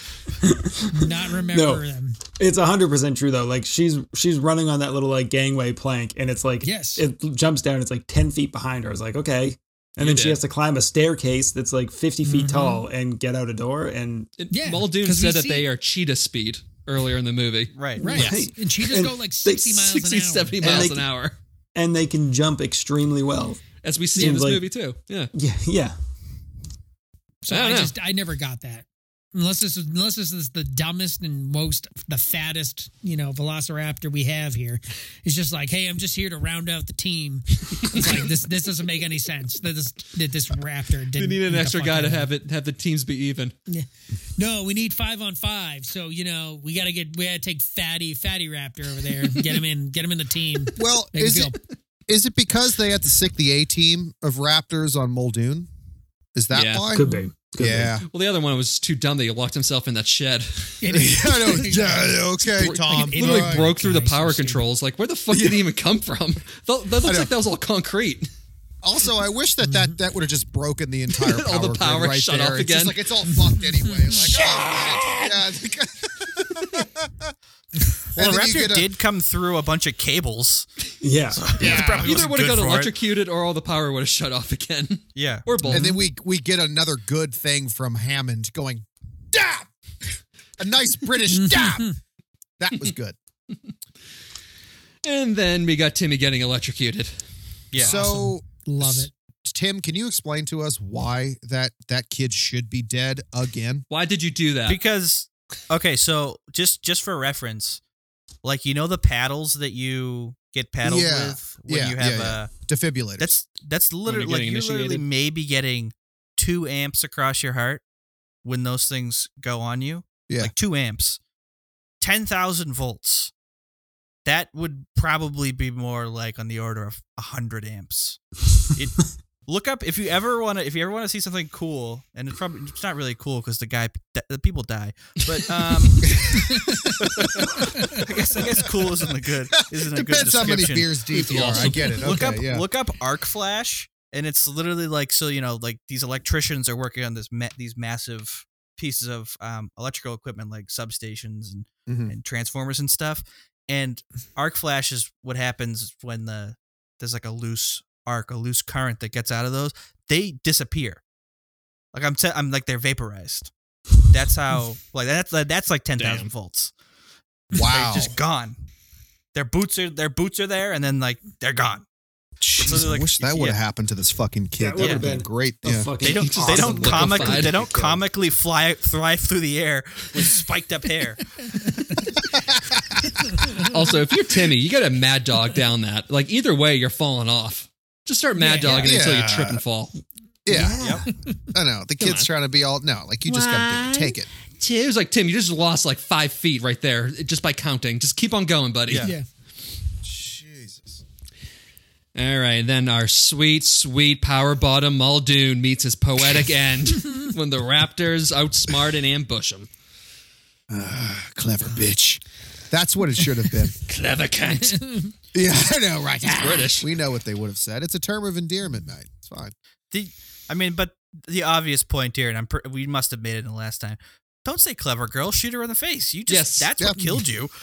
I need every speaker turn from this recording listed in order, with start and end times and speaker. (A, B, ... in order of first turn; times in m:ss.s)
0:00.4-0:01.8 A
0:00.9-0:02.2 B
0:02.4-0:14.3 A
0:06.6-0:07.0 B
0:10.0-0:10.4 C
0:12.2-0:12.8 B
0:14.4-0:18.4 C
0:14.5-0:15.7 B
0:17.7-0:18.0 D
0:18.0-0:19.6 A
0:18.0-0:20.9 B
0:19.6-0:21.4 C
0:20.6-0:21.1 A
0:21.7-0:24.7 A
0:23.8-0:25.3 C
0:25.3-0:25.9 A
0:27.4-0:42.3 B
0:27.5-0:27.9 C
0:37.8-0:38.3 C
0:41.2-0:43.5 C
0:43.7-0:51.6 B
0:50.8-0:51.5 E
0:52.1-0:55.7 E
0:56.3-0:57.1 E
0:56.5-0:57.0 C
0:56.9-0:58.0 A
0:57.6-0:58.0 E
0:58.0-1:00.9 C
1:00.8-1:04.6 B
1:00.9-1:03.7 E
1:02.4-1:08.3 C
1:07.0-1:07.3 E
1:08.8-1:17.3 E
1:09.6-1:10.0 B
1:11.2-1:13.0 C
1:13.3-1:14.3 B
1:14.2-1:15.4 C
1:18.1-1:18.9 E
1:18.2-1:20.7 D
1:21.0-1:21.9 A
1:21.3-1:22.9 D
1:21.6-1:22.2 E
1:22.0-1:26.0 C
1:25.2-1:25.5 D
1:25.6-1:31.9 E
1:31.3-1:31.9 B
1:32.6-1:33.2 E
1:35.0-1:37.2 C
1:37.7-1:38.0 D
1:37.8-1:43.8 E
1:37.8-1:39.1 B
1:43.9-1:44.8 C
1:44.7-1:47.8 D
1:48.4-1:52.5 D
1:50.8-1:53.3 E
1:53.2-1:57.8 D
1:54.0-1:55.0 C
1:58.4-2:01.2 D
2:02.0-2:03.3 D
2:04.2-2:08.2 D
2:08.7-2:16.2 D
2:16.0-2:16.4 E
2:16.5-2:16.9 B
2:17.0-2:41.0 D
2:17.6-2:18.0 B
2:19.7-2:22.7 E
2:31.9-2:32.1 E
2:41.9-2:43.5 D
2:44.0-2:46.7 D
2:46.0-2:46.3 C
2:47.5-2:48.2 E
2:47.5-2:48.6 D
2:49.3-2:51.8 D
2:52.4-2:55.9 E
2:52.6-2:53.6 D
2:54.6-2:58.0 A
2:54.8-2:55.0 D
2:56.0-3:01.3 D
2:56.2-2:57.6 C
3:02.3-3:03.2 E
3:03.4-3:03.7 B
3:03.6-3:09.9 C
3:08.4-3:08.9 B
3:08.6-3:09.6 E
3:10.4-3:10.9 E
3:10.5-3:11.1 A
3:10.8-3:11.0 D
3:11.5-3:14.3 E
3:12.0-3:12.3 C
3:13.2-3:19.1 C
3:20.0-3:21.0 E
3:22.1-3:29.7 C
3:30.7-3:33.7 E
3:33.8-3:34.8 C
3:34.7-3:35.1 B
3:35.3-3:39.5 E
3:36.2-3:36.8 C
3:39.9-3:47.5 D
3:46.3-3:46.7 C
3:46.8-3:47.0 E